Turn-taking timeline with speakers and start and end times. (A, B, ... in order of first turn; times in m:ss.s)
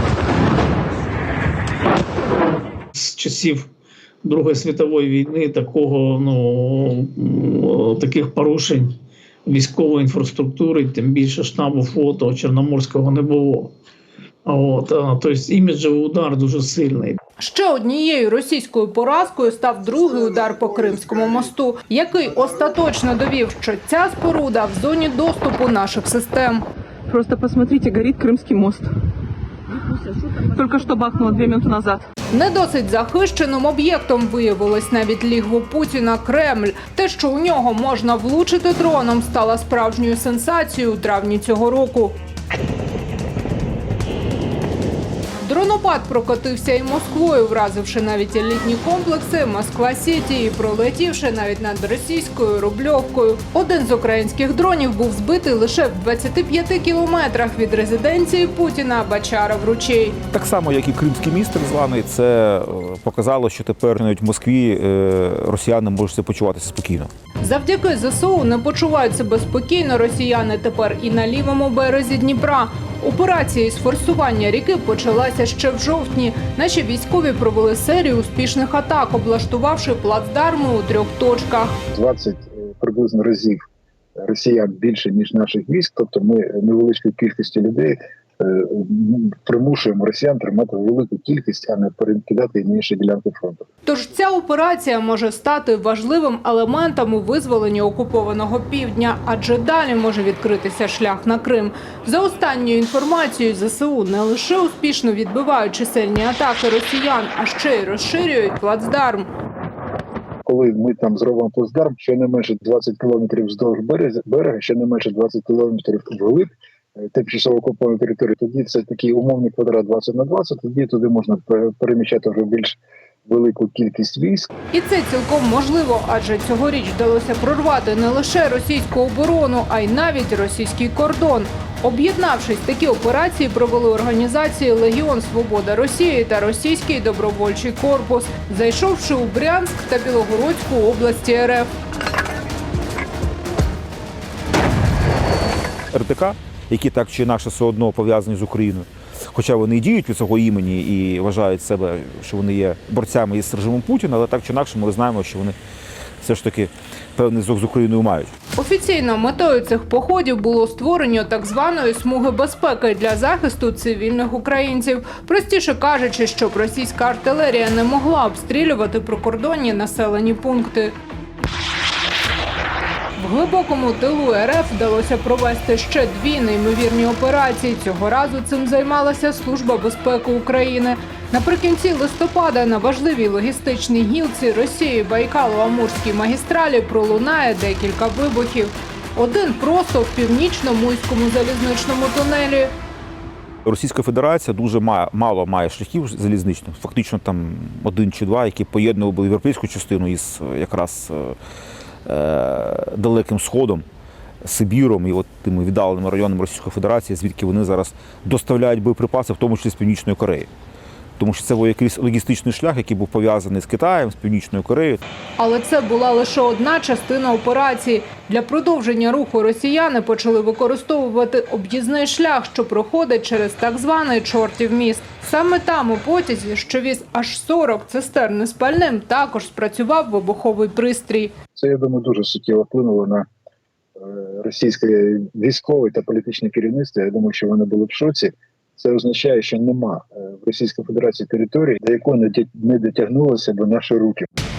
0:02.9-0:03.7 A
0:04.2-0:13.7 A
0:14.4-0:17.2 A
0:17.4-0:26.6 B
0:27.1-0:28.9 C
0:30.4-0:32.0 C
0:32.3-0:42.2 B
0:45.4-1:00.2 B
1:00.3-1:07.1 D
1:07.4-1:21.8 B
1:21.9-1:23.6 E
1:24.2-1:33.7 E
1:33.8-1:49.3 B
1:50.4-1:56.5 E
1:57.1-2:04.5 E
2:04.7-2:21.7 B
2:25.9-2:35.6 D
2:36.2-2:38.3 D
2:38.6-2:50.9 B
2:53.2-3:12.7 B
3:13.6-3:21.4 D
3:22.0-3:23.8 D
3:24.4-3:30.5 D
3:31.2-3:35.0 D
3:35.4-3:51.3 B
3:51.5-3:53.2 E
3:54.0-4:04.2 E